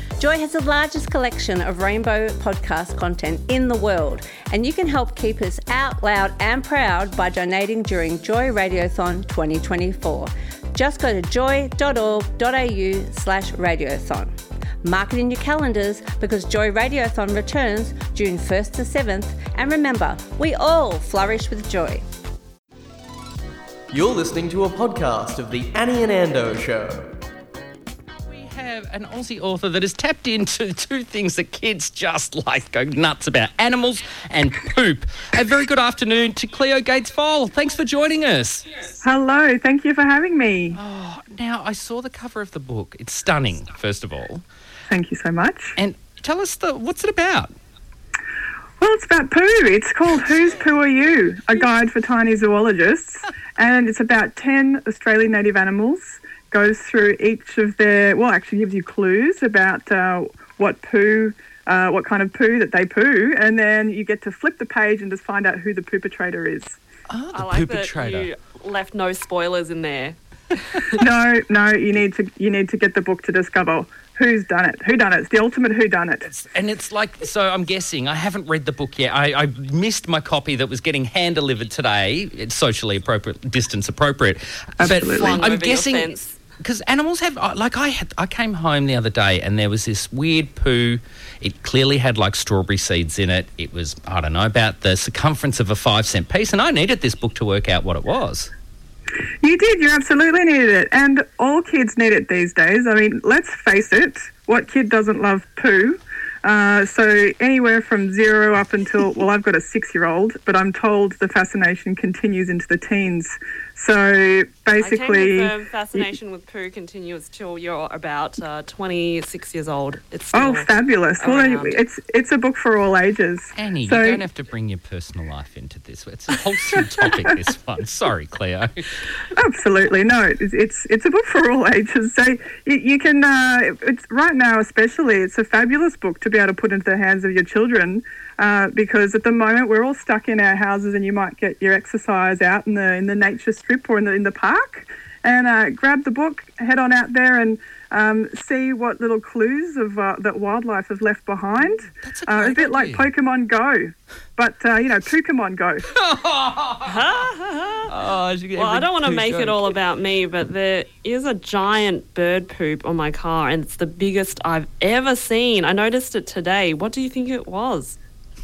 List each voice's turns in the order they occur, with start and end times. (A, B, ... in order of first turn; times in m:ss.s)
0:00.2-0:22.0 A
0:23.9-0:27.2 B
0:28.3-0:38.6 C
0:39.0-0:40.8 D
0:40.7-0:44.4 C
0:44.9-0:45.7 D
0:45.8-0:47.5 C
0:48.8-1:06.8 D
1:07.1-1:08.3 C
1:07.3-1:11.0 E
1:11.0-1:16.3 D
1:16.2-1:38.5 C
1:24.8-1:25.4 D
1:25.2-1:26.4 E
1:39.4-1:56.1 D
1:54.8-2:01.8 E
2:00.3-2:04.2 D
2:03.5-2:08.8 C
2:09.3-2:35.9 D
2:31.8-2:33.1 C
2:35.9-2:37.0 C
2:36.8-2:37.9 E
2:37.9-2:39.7 C
2:38.6-2:48.0 E